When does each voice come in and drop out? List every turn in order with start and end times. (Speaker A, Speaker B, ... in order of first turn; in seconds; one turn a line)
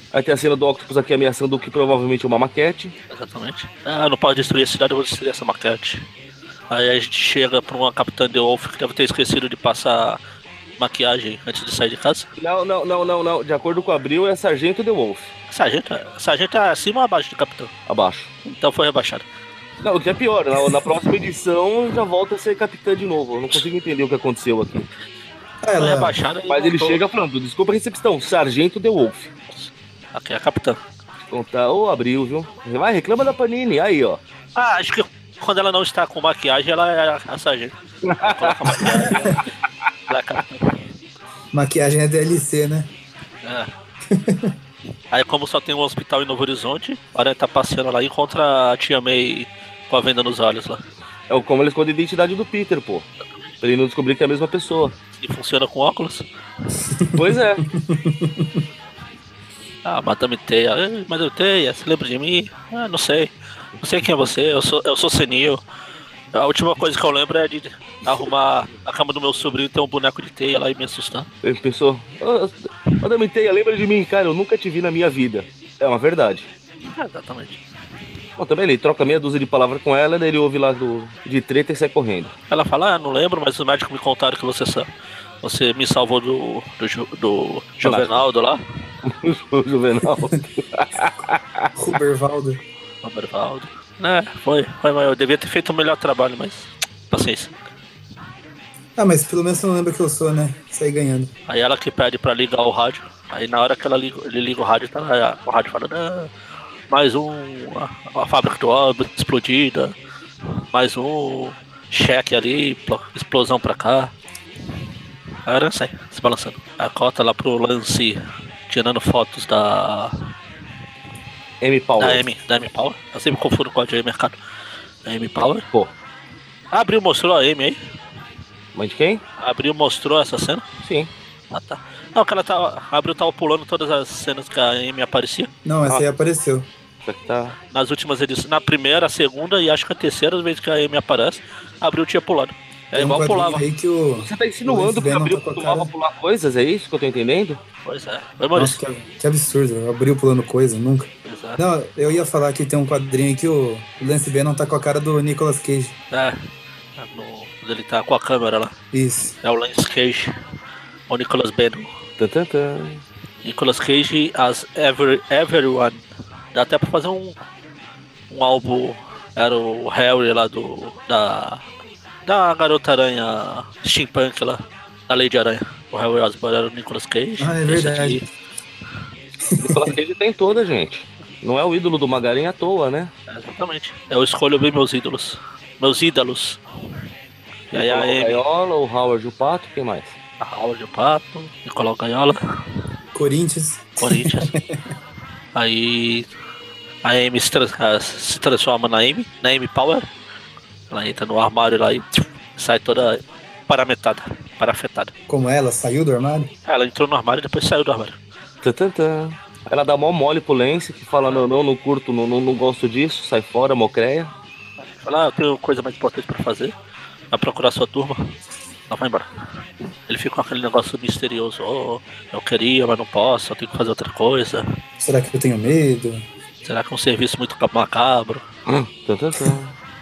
Speaker A: 0.1-2.9
Speaker B: 3.1-6.1
Speaker B: 6.7-10.2
Speaker B: 10.8-12.3
Speaker A: 12.4-15.3
Speaker B: 15.5-17.7
Speaker A: 17.9-18.3
Speaker B: 18.4-19.2
Speaker A: 19.8-24.9
Speaker C: 25.6-26.1
Speaker B: 25.8-27.0
Speaker A: 26.5-29.3
Speaker B: 30.1-30.8
Speaker A: 31.2-34.2
Speaker B: 34.5-39.4
Speaker A: 38.0-39.0
Speaker B: 40.1-40.8
Speaker C: 41.5-42.9
Speaker B: 43.4-43.7
Speaker C: 44.1-44.5
Speaker B: 45.1-50.8
Speaker A: 51.3-53.1
Speaker A: 53.6-54.9
Speaker B: 55.2-56.2
Speaker A: 57.1-57.6
Speaker C: 57.7-58.6
Speaker B: 59.8-65.6
Speaker B: 66.3-71.3
Speaker A: 71.4-76.5
Speaker B: 76.8-77.6
Speaker A: 78.4-82.3
Speaker B: 82.5-84.9
Speaker B: 85.4-88.6
Speaker A: 87.8-88.1
Speaker A: 89.0-91.7
Speaker C: 91.7-92.6
Speaker B: 93.0-97.5
Speaker C: 99.0-101.3
Speaker B: 101.5-106.3
Speaker B: 106.9-109.9
Speaker B: 110.7-114.1
Speaker B: 115.5-120.3
Speaker A: 121.6-122.2
Speaker B: 122.0-124.4
Speaker B: 125.0-125.7
Speaker B: 126.7-127.8
Speaker A: 128.7-129.2
Speaker B: 129.4-130.6
Speaker A: 130.8-131.1
Speaker B: 131.5-135.5
Speaker C: 135.6-136.7
Speaker A: 137.1-137.5
Speaker B: 137.7-143.6
Speaker C: 142.9-145.9
Speaker A: 144.2-147.6
Speaker B: 147.8-148.8
Speaker C: 148.5-155.9
Speaker B: 151.2-151.6
Speaker B: 156.1-158.7
Speaker C: 158.9-159.3
Speaker B: 159.4-160.3
Speaker B: 161.1-161.9
Speaker A: 162.2-163.0
Speaker B: 163.4-167.4
Speaker B: 168.3-171.6
Speaker B: 172.2-178.2
Speaker C: 177.4-178.2
Speaker C: 179.5-179.9
Speaker A: 179.6-183.1
Speaker B: 183.3-186.6
Speaker B: 187.7-188.4
Speaker A: 187.7-190.1
Speaker B: 190.4-192.4
Speaker C: 193.1-194.8
Speaker B: 194.0-194.5
Speaker B: 195.5-196.3
Speaker B: 197.0-200.1
Speaker B: 200.9-205.1
Speaker C: 205.3-206.5
Speaker B: 206.7-208.2
Speaker A: 208.6-214.3
Speaker B: 214.8-216.7
Speaker B: 217.3-218.3
Speaker B: 218.9-219.3
Speaker B: 220.1-224.7
Speaker C: 225.0-226.2
Speaker B: 226.6-228.4
Speaker A: 228.7-229.7